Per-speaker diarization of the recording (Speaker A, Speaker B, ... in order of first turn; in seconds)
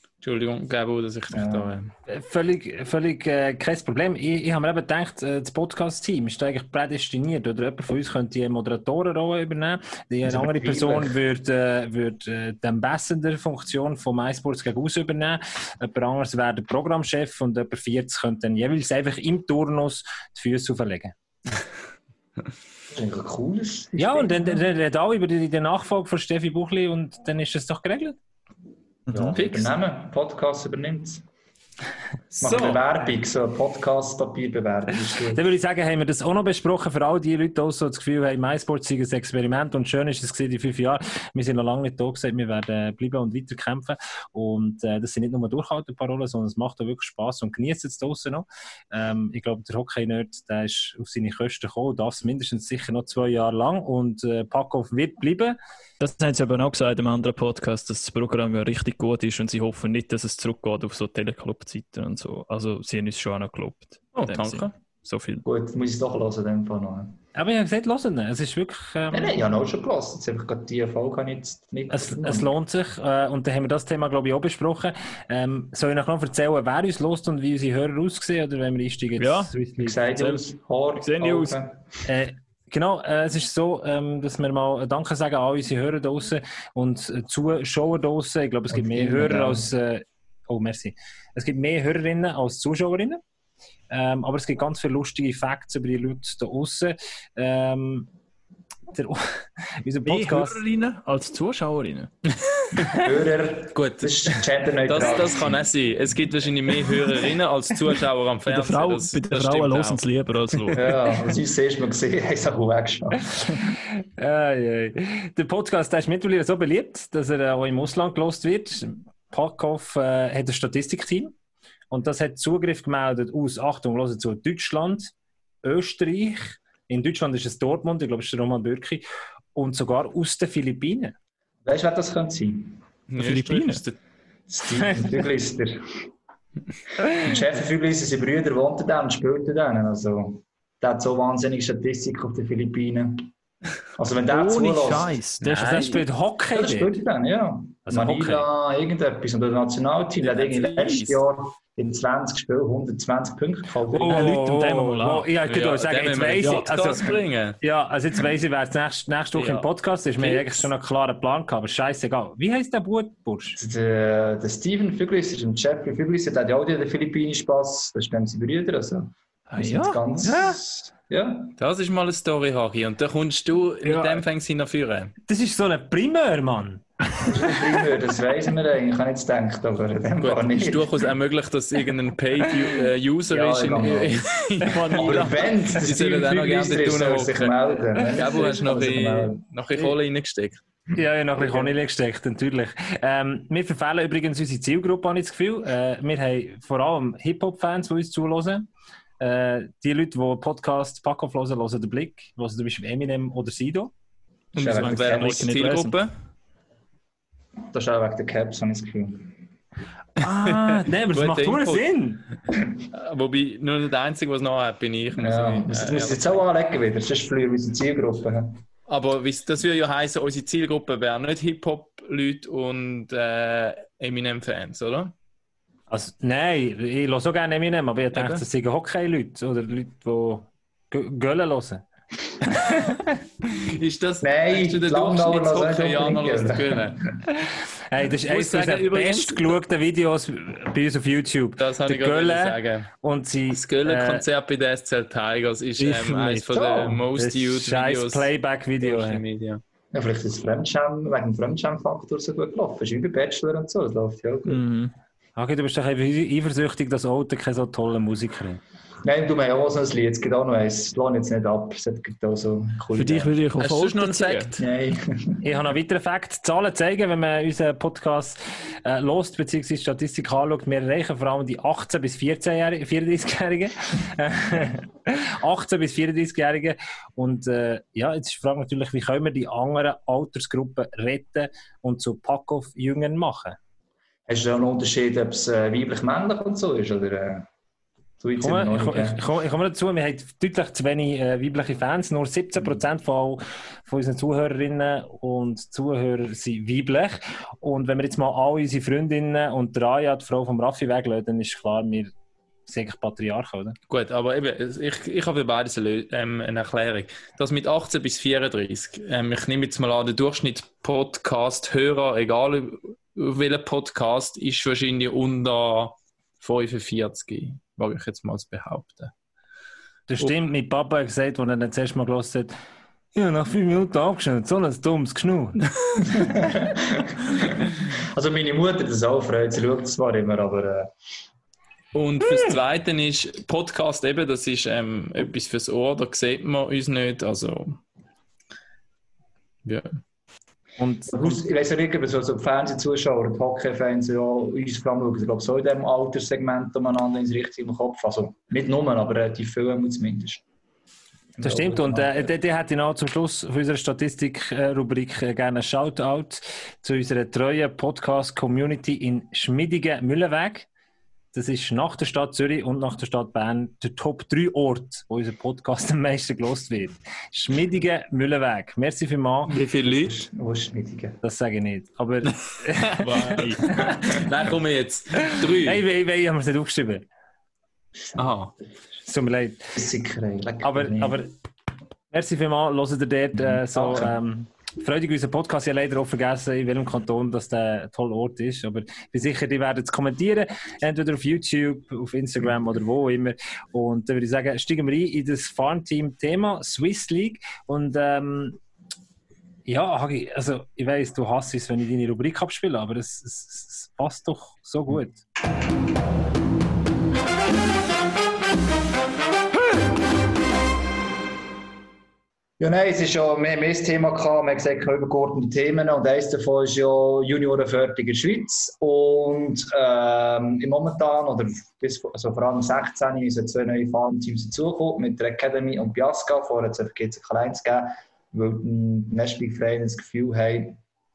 Speaker A: 0.2-1.9, 32.4-32.8, 64.2-64.7, 103.7-104.3, 104.9-110.0, 133.1-134.0, 145.4-146.0, 150.2-151.2, 155.5-157.6, 159.3-159.7, 160.2-160.7, 171.6-175.1, 180.2-190.6, 204.6-206.1, 210.5-211.9, 212.9-216.4, 218.9-225.1, 228.1-228.4, 233.5-237.0, 238.3-239.6, 241.6-242.9, 243.5-249.6, 263.6-264.6, 303.9-319.1, 331.9-337.8, 339.6-340.0, 369.5-370.1, 372.9-375.8, 378.1-378.5
Speaker B: 1.3-1.8, 10.2-11.2, 22.9-24.6, 29.1-31.2, 32.4-35.4, 65.5-67.2, 69.1-72.5, 79.8-82.0, 88.7-89.7, 103.0-105.6, 110.7-113.8, 131.7-132.8, 134.5-136.1, 137.1-143.3, 144.0-145.2, 146.6-154.3, 163.6-171.6, 177.2-181.0, 183.3-184.2, 184.9-189.4, 191.4-191.7, 204.5-205.4, 207.7-209.4, 215.2-218.6, 234.2-237.1, 246.5-247.0, 249.9-254.6, 259.0-263.3, 264.6-265.4, 284.3-287.5, 288.2-289.2, 326.1-330.9, 341.1-350.4, 351.4-352.3, 369.9-371.2, 379.8-381.2, 383.4-384.2, 412.6-430.8
Speaker C: 2.1-21.1, 24.0-28.2, 29.4-29.7, 35.3-55.6, 67.3-69.3, 71.9-80.0, 82.0-93.2, 93.9-98.1, 98.9-100.6, 114.2-121.3, 121.9-125.1, 125.6-129.0, 129.6-131.2, 145.6-146.9, 147.9-148.5, 153.9-157.1, 157.6-163.6, 175.3-176.8, 191.0-198.7, 199.2-203.9, 210.2-212.3, 225.9-231.8, 232.5-233.1, 237.3-244.2, 245.8-249.2, 255.4-258.6, 265.4-283.6, 288.4-302.1, 302.7-303.8, 320.1-322.5, 323.1-325.7, 340.8-341.4, 351.4-360.7, 361.3-369.6, 371.2-374.0, 375.2-377.1, 379.1-379.8, 380.6-381.3, 382.1-398.6, 399.7-405.2
Speaker D: 29.1-29.4, 56.0-65.4, 79.2-79.5, 80.1-80.4, 81.0-81.6, 100.1-103.0, 108.5-111.3, 133.2-133.8, 144.3-146.0, 154.1-155.3, 169.5-170.6, 184.6-185.7, 204.6-206.0, 254.5-254.9, 262.9-264.6